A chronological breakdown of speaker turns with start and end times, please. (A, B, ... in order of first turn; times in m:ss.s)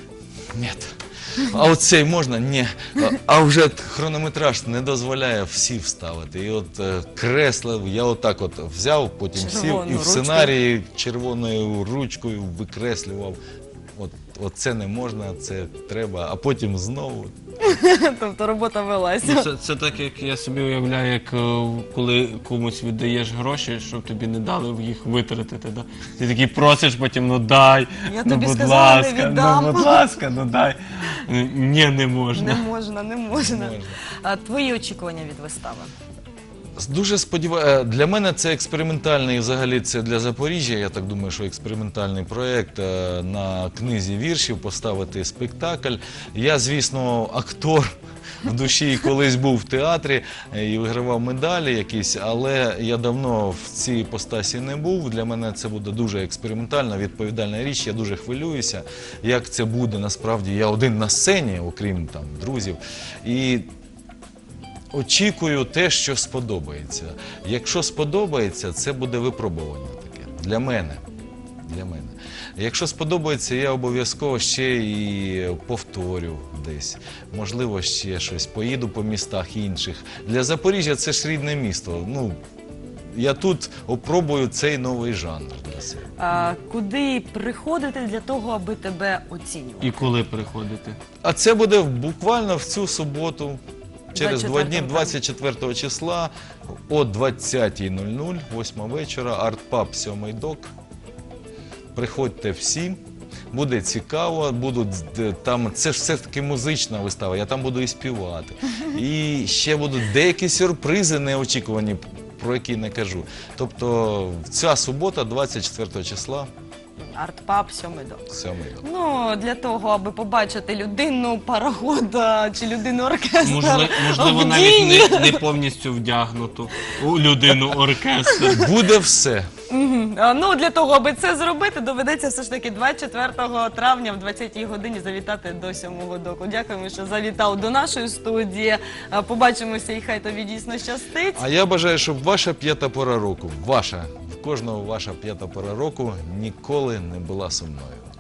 0:00.5-0:13.4 A
0:09.3-0:10.5 B
0:14.0-0:17.3 A
0:17.6-0:19.5 B
0:19.2-0:32.6 C
0:28.1-0:30.0 B
0:32.3-0:35.9 B
0:33.3-0:34.0 A
0:36.8-1:03.7 A
1:04.9-1:11.0 A
1:11.6-1:22.4 A
1:23.1-1:26.1 A
1:26.2-1:30.0 B
1:29.8-1:31.0 C
1:31.2-1:33.6 A
1:34.1-1:35.2 B
1:34.1-1:36.3 A
1:36.9-1:40.7 A
1:41.9-1:43.0 A
1:43.5-1:56.5 A
1:57.0-1:58.2 B
1:58.3-1:58.8 A
1:58.8-2:05.4 B
2:03.4-2:08.7 C
2:08.5-2:09.5 A
2:09.7-2:21.4 B
2:21.3-2:28.1 A